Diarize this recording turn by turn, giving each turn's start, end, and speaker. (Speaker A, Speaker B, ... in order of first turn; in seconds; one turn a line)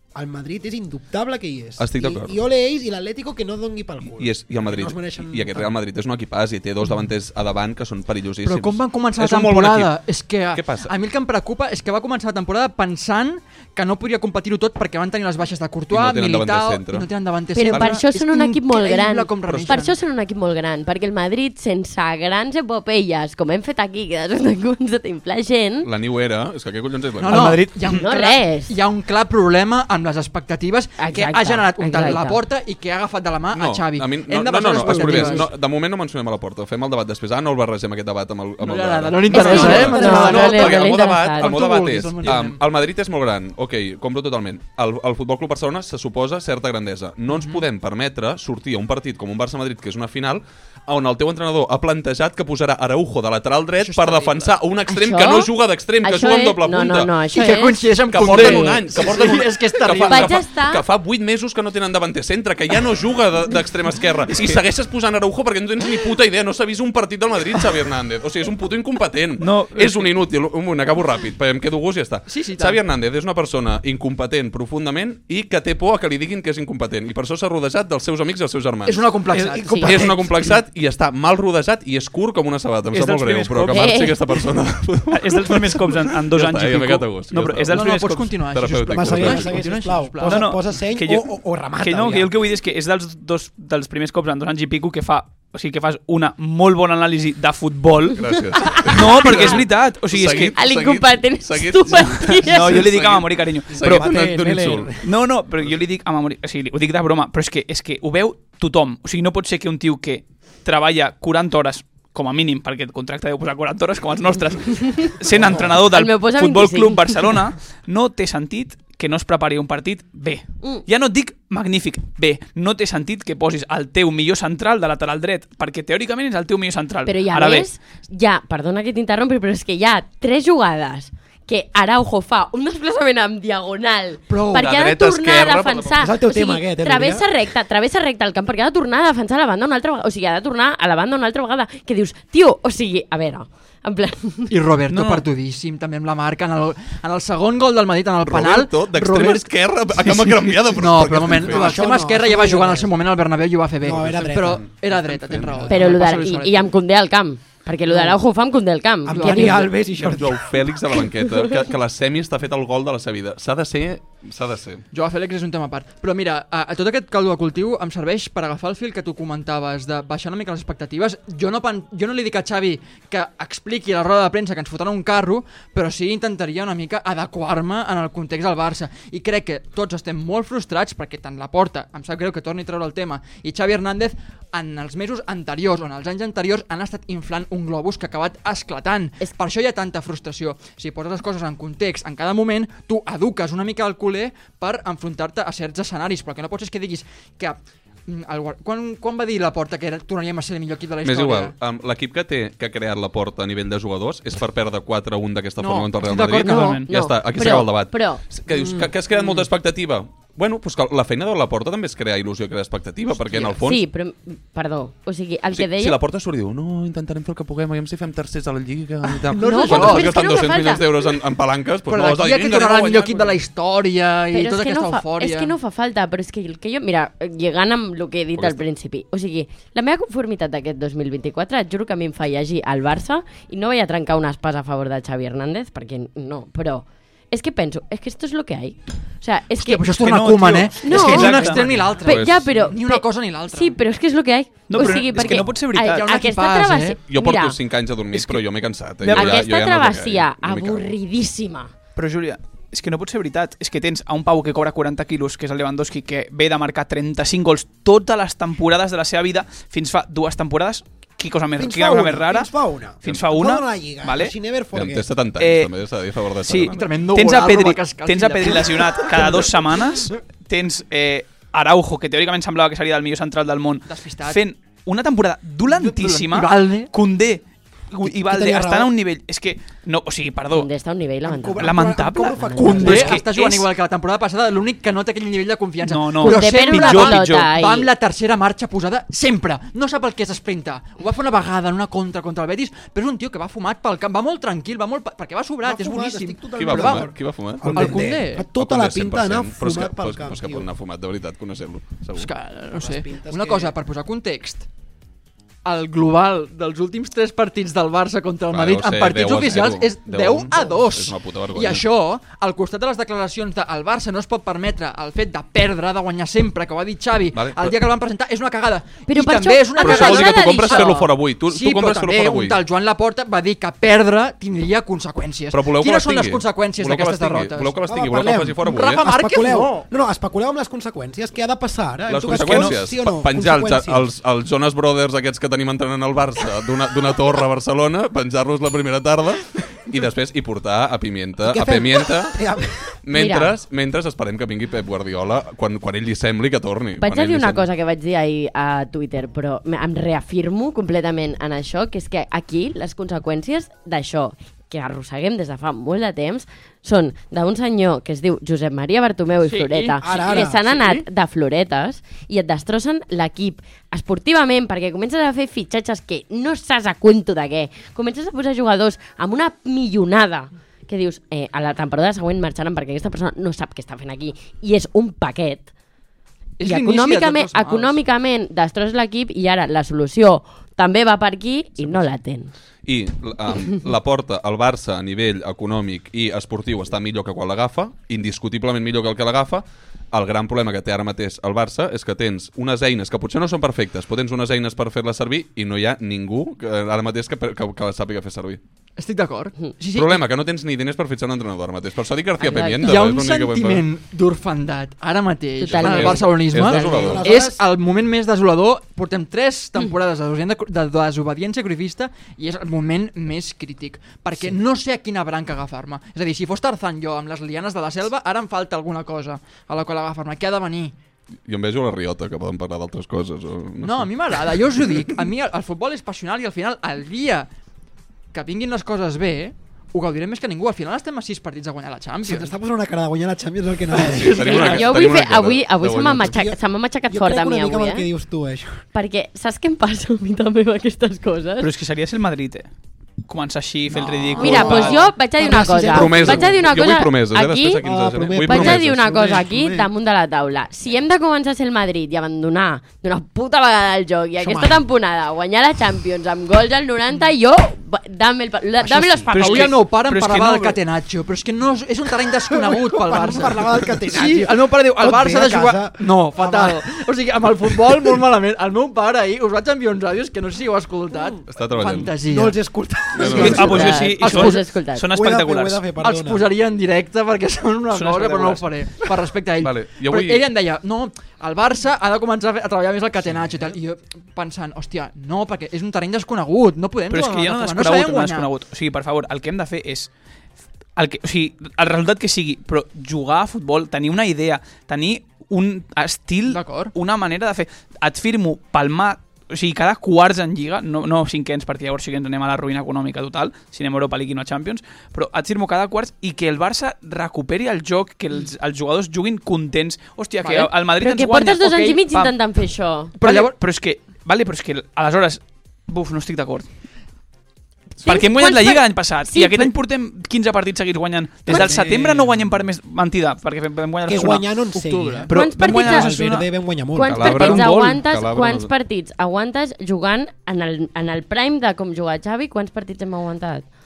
Speaker A: 0.1-5.7
Speaker B: 1.8-2.4
Speaker B: 4.1-10.0
Speaker C: 8.4-19.9
Speaker B: 10.5-10.9
Speaker B: 15.9-17.1
Speaker D: 17.5-25.9
Speaker B: 17.6-18.0
Speaker B: 19.5-19.8
Speaker B: 25.8-27.6
Speaker C: 27.2-35.5
Speaker E: 27.3-28.0
Speaker D: 27.9-28.8
Speaker D: 31.0-32.4
Speaker B: 33.5-57.4
Speaker C: 38.6-42.6
Speaker D: 39.3-41.6
Speaker A: 39.5-40.4
Speaker C: 47.3-47.6
Speaker C: 53.8-54.5
Speaker D: 54.9-59.0
Speaker C: 57.3-60.4
Speaker B: 58.1-79.1
Speaker D: 60.0-60.8
Speaker E: 64.3-64.6
Speaker E: 69.4-70.1
Speaker C: 72.3-72.8
Speaker C: 78.8-80.5
Speaker A: 79.5-80.1
Speaker D: 79.6-79.9
Speaker B: 79.8-87.9
Speaker E: 82.9-84.1
Speaker D: 83.7-84.2
Speaker E: 85.1-88.3
Speaker C: 87.7-90.5
Speaker B: 88.5-89.6
Speaker A: 88.9-92.3
Speaker E: 90.2-100.5
Speaker B: 98.1-104.9
Speaker D: 98.8-99.4
Speaker D: 100.5-102.9
Speaker E: 102.4-104.1
Speaker A: 103.7-105.1
Speaker E: 105.0-127.7
Speaker D: 115.9-117.2
Speaker D: 127.1-144.6
Speaker B: 134.3-136.1
Speaker A: 136.0-137.3
Speaker C: 144.5-156.7
Speaker E: 144.9-145.2
Speaker B: 148.2-151.8
Speaker A: 151.4-152.9
Speaker A: 153.8-155.9
Speaker B: 155.2-155.7
Speaker D: 155.7-159.7
Speaker C: 157.9-158.2
Speaker A: 159.1-160.7
Speaker C: 159.1-159.8
Speaker B: 160.0-164.8
Speaker C: 164.9-201.6
Speaker B: 201.0-213.8
Speaker C: 205.6-206.8
Speaker E: 206.4-206.9
Speaker D: 206.4-208.2
Speaker D: 213.4-216.0
Speaker B: 215.5-223.4
Speaker C: 219.3-220.4
Speaker D: 219.3-220.9
Speaker C: 221.9-225.5
Speaker D: 224.3-239.9
Speaker B: 228.4-228.6
Speaker C: 239.6-243.8
Speaker E: 240.0-241.7
Speaker D: 240.8-247.6
Speaker B: 241.1-242.6
Speaker E: 244.7-246.1
Speaker C: 244.9-247.0
Speaker B: 247.1-250.9
Speaker E: 248.1-248.4
Speaker E: 249.0-249.4
Speaker D: 249.1-251.7
Speaker E: 251.9-262.5
Speaker A: 261.6-265.1
Speaker E: 263.0-264.3
Speaker B: 264.7-266.9
Speaker E: 265.4-265.7
Speaker E: 266.4-280.7
Speaker C: 266.7-269.4
Speaker C: 273.9-274.4
Speaker C: 275.7-276.9
Speaker A: 278.0-278.9
Speaker D: 280.5-281.7
Speaker A: 281.2-283.2
Speaker E: 281.6-283.7
Speaker D: 282.4-283.1
Speaker C: 282.6-297.1
Speaker E: 285.8-287.5
Speaker D: 286.2-287.9
Speaker A: 295.6-300.7
Speaker B: 296.6-302.3
Speaker C: 297.6-298.5
Speaker C: 302.1-304.7
Speaker A: 302.7-303.7
Speaker C: 305.6-327.8
Speaker B: 308.5-311.9
Speaker B: 317.3-317.8
Speaker D: 319.1-321.0
Speaker B: 319.8-322.6
Speaker B: 325.5-329.1
Speaker A: 327.9-334.1
Speaker C: 328.6-329.9
Speaker B: 332.1-342.4
Speaker E: 332.3-332.7
Speaker A: 341.4-342.9
Speaker B: 343.0-347.6
Speaker D: 343.1-343.5
Speaker D: 347.0-375.7
Speaker C: 359.4-361.1
Speaker A: 360.0-360.6
Speaker C: 376.6-378.0
Speaker D: 376.6-382.5
Speaker B: 382.9-398.6
Speaker C: 399.0-400.2
Speaker B: 399.9-403.9
Speaker D: 402.4-403.0
Speaker C: 402.8-420.9
Speaker D: 405.6-406.4
Speaker B: 405.7-407.3
Speaker A: 406.5-407.6
Speaker B: 421.4-425.1
Speaker C: 423.8-427.5
Speaker C: 428.3-432.5
Speaker A: 432.2-434.7
Speaker C: 434.1-435.0
Speaker B: 434.1-436.4
Speaker D: 434.4-438.1
Speaker A: 436.2-438.9
Speaker D: 438.9-441.7
Speaker E: 441.6-442.7
Speaker E: 443.2-445.0
Speaker A: 444.0-446.7
Speaker D: 444.4-459.7
Speaker B: 445.9-448.9
Speaker A: 447.8-449.9
Speaker A: 454.4-454.8
Speaker A: 458.8-459.3
Speaker E: 459.3-460.8
Speaker C: 459.4-472.6
Speaker A: 462.5-466.8
Speaker B: 471.5-472.2
Speaker A: 472.2-474.1
Speaker B: 473.1-473.8
Speaker C: 473.2-474.6
Speaker E: 473.3-475.8
Speaker D: 473.4-475.1
Speaker A: 475.1-476.5
Speaker C: 476.0-488.5
Speaker E: 477.9-478.6
Speaker B: 479.6-480.5
Speaker E: 487.1-490.1
Speaker E: 490.9-512.3
Speaker C: 496.4-496.9
Speaker D: 511.0-513.1
Speaker C: 513.2-513.5
Speaker E: 513.2-516.7
Speaker D: 518.0-519.7
Speaker E: 518.0-524.4
Speaker A: 521.5-522.4
Speaker A: 524.1-527.4
Speaker C: 524.7-525.3
Speaker E: 525.3-526.5
Speaker D: 525.3-526.2
Speaker D: 526.9-533.6
Speaker B: 527.1-528.7
Speaker E: 527.2-528.0